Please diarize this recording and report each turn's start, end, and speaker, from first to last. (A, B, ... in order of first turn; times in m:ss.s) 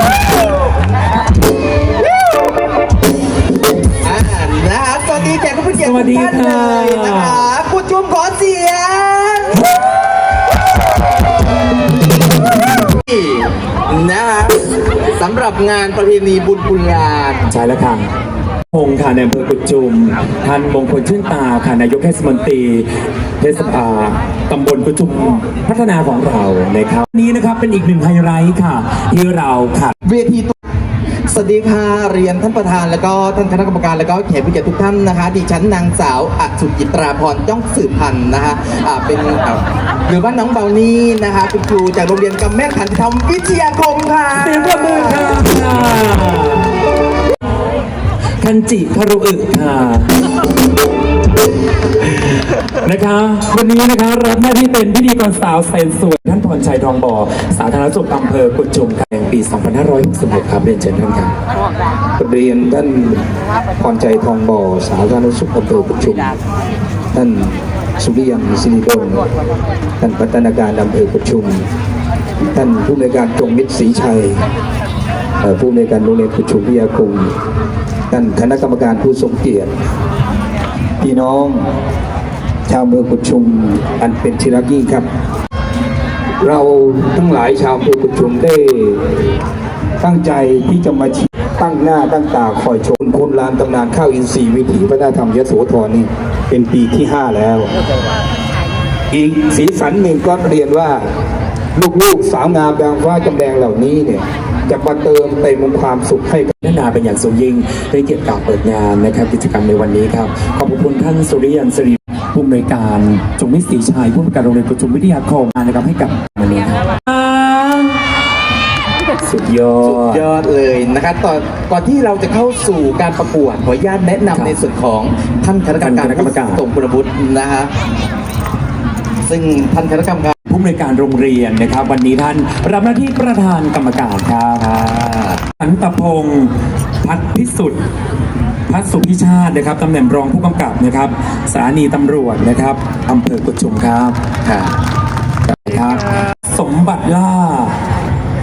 0:04.0-0:09.6 A
0:05.7-0:07.5 B
0:13.1-0:17.4 A
0:17.5-0:18.1 B
0:18.7-0:22.9 B
0:23.4-0:29.9 B
0:30.0-0:30.5 A
0:31.3-0:45.4 A
0:44.3-0:46.8 B
0:48.4-0:50.1 B
0:52.0-1:01.3 B
1:02.2-1:03.2 C
1:03.8-1:06.4 C
1:07.1-1:09.2 C
1:10.0-1:11.6 C
1:12.4-1:14.4 C
1:15.4-1:17.3 C
1:18.1-1:19.7 C
1:21.0-1:21.7 C
1:22.7-1:25.1 C
1:26.4-1:29.0 C
1:30.0-1:37.7 C
1:39.1-1:41.0 C
1:41.8-1:46.5 C
1:46.6-1:58.0 B
1:59.2-2:00.3 B
1:59.8-2:07.7 A
2:04.3-2:04.6 B
2:05.8-2:06.6 B
2:09.2-2:10.3 A
2:10.5-2:14.7 B
2:14.6-2:15.4 A
2:15.5-2:17.8 B
2:18.7-2:24.2 B
2:24.4-2:24.8 A
2:25.5-2:27.8 B